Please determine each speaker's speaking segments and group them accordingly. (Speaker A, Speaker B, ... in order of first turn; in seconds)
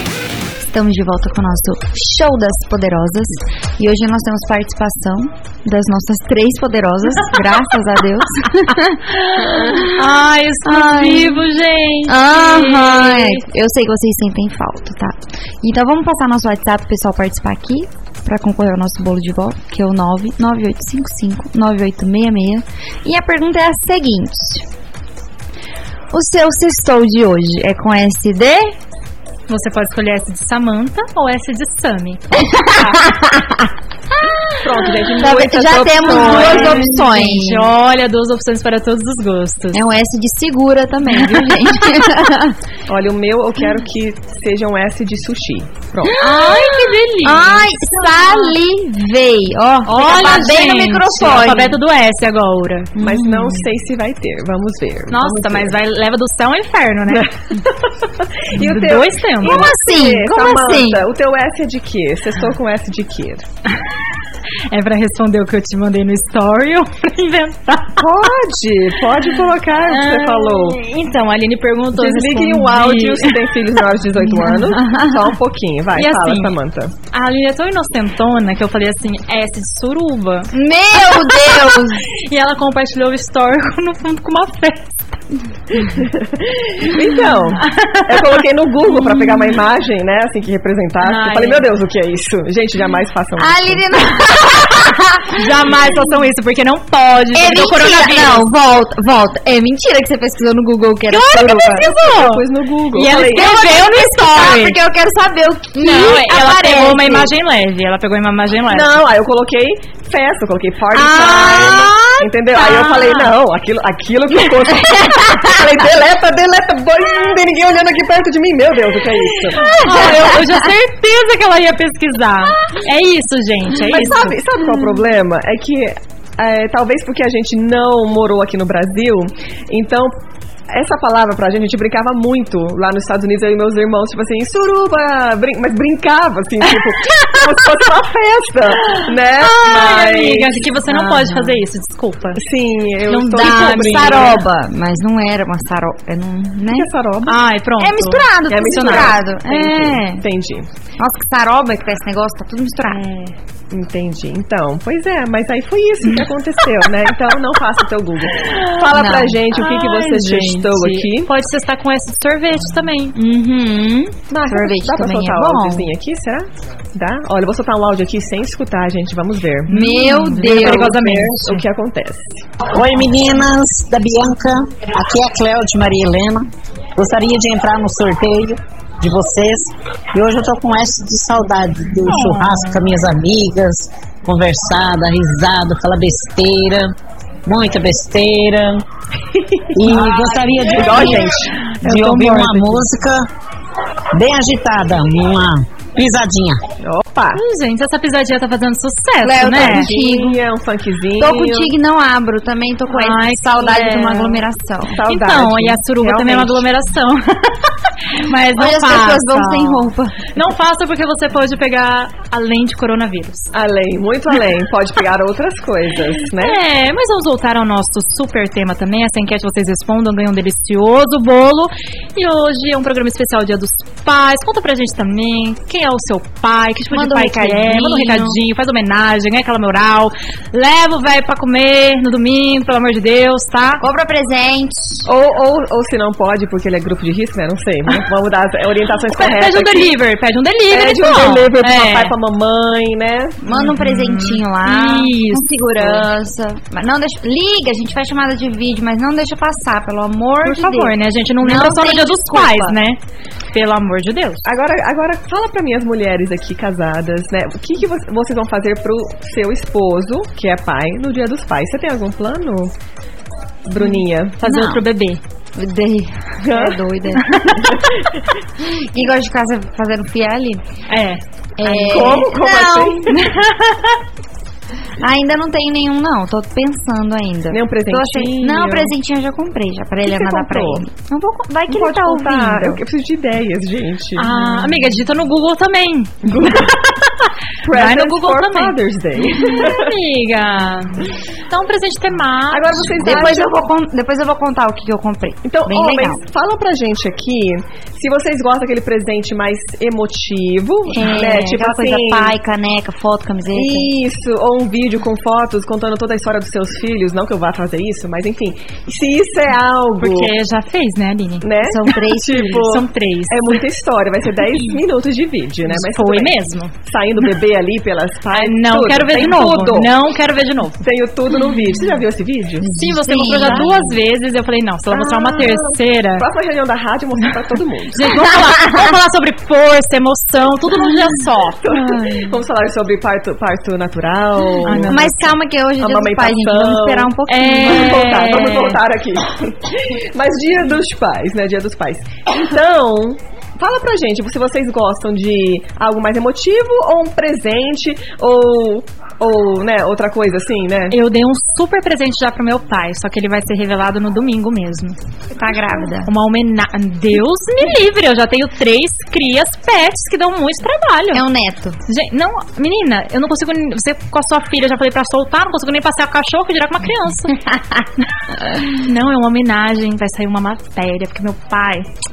Speaker A: 0.6-10.0, 10.6-11.4, 12.1-24.7, 26.1-28.8, 32.4-33.7, 35.2-37.7, 39.7-42.6, 46.0-51.8, 53.0-53.7, 59.4-61.0, 74.3-75.3, 80.5-82.0, 93.4-95.5, 97.3-101.8, 103.1-107.3, 111.0-112.0, 114.9-115.7, 119.5-120.6, 140.9-141.6, 143.3-146.9, 147.8-150.2, 151.0-153.0, 158.9-159.4, 163.1-165.9, 169.7-171.0, 199.2-200.4, 201.2-205.0, 208.6-210.2, 226.9-228.4, 233.8-235.1, 243.4-252.8, 264.4-264.8, 265.6-267.5, 268.6-270.6, 271.6-273.2, 275.0-282.8, 293.0-296.2, 300.9-303.9, 311.6-312.6, 322.6-323.9, 334.9-338.1, 355.3-356.1, 361.1-361.8, 367.5-367.8
Speaker B: 9.1-13.4, 29.5-32.5, 36.0-39.8, 46.2-48.6, 49.9-52.9, 55.1-57.3, 58.5-59.7, 64.7-68.1, 69.9-73.3, 76.0-76.6, 77.1-85.1, 87.7-88.2, 91.0-91.7, 95.3-98.5, 101.1-104.8, 105.8-109.0, 111.0-113.3, 119.6-124.4, 138.8-142.4, 143.1-144.4, 147.3-149.2, 152.9-153.3, 159.5-163.2, 169.7-171.7, 182.1-182.8, 197.3-199.9, 202.9-204.4, 205.1-213.5, 216.3-233.8, 239.1-242.1, 243.5-245.4, 250.4-253.0, 253.5-254.4, 263.8-265.2, 267.2-267.8, 270.9-271.2, 273.2-274.0, 284.2-293.3, 310.0-313.6, 315.6-316.7, 318.3-320.8, 322.7-326.2, 327.9-332.3, 334.6-335.3, 337.3-338.8, 350.9-355.0, 356.1-361.2, 361.9-367.4, 368.5-371.9
Speaker C: 32.8-33.0, 34.5-36.9, 42.9-46.2, 53.0-55.8, 57.1-63.4, 68.0-70.8, 72.0-76.9, 85.8-93.8, 101.8-103.5, 108.7-120.2, 123.9-130.2, 130.7-140.7, 142.4-144.4, 146.7-147.4, 148.5-150.7, 153.7-161.3, 164.3-169.7, 170.4-172.2, 189.9-192.7, 196.8-197.4, 199.6-201.7, 204.8-206.7, 213.5-216.6, 235.1-239.9, 240.7-243.4, 254.4-262.7, 263.7-264.4, 266.4-266.8, 267.6-268.1, 271.6-273.3, 277.5-278.9, 280.1-280.9, 281.7-285.0, 286.2-286.8, 287.6-289.9, 292.5-293.5, 295.4-302.3, 303.5-310.3, 311.4-319.9, 320.8-322.7, 323.2-323.7, 324.9-328.2, 331.6-335.1, 335.8-351.0
Speaker D: 172.7-186.9, 187.5-188.9, 189.7-193.3, 194.1-196.6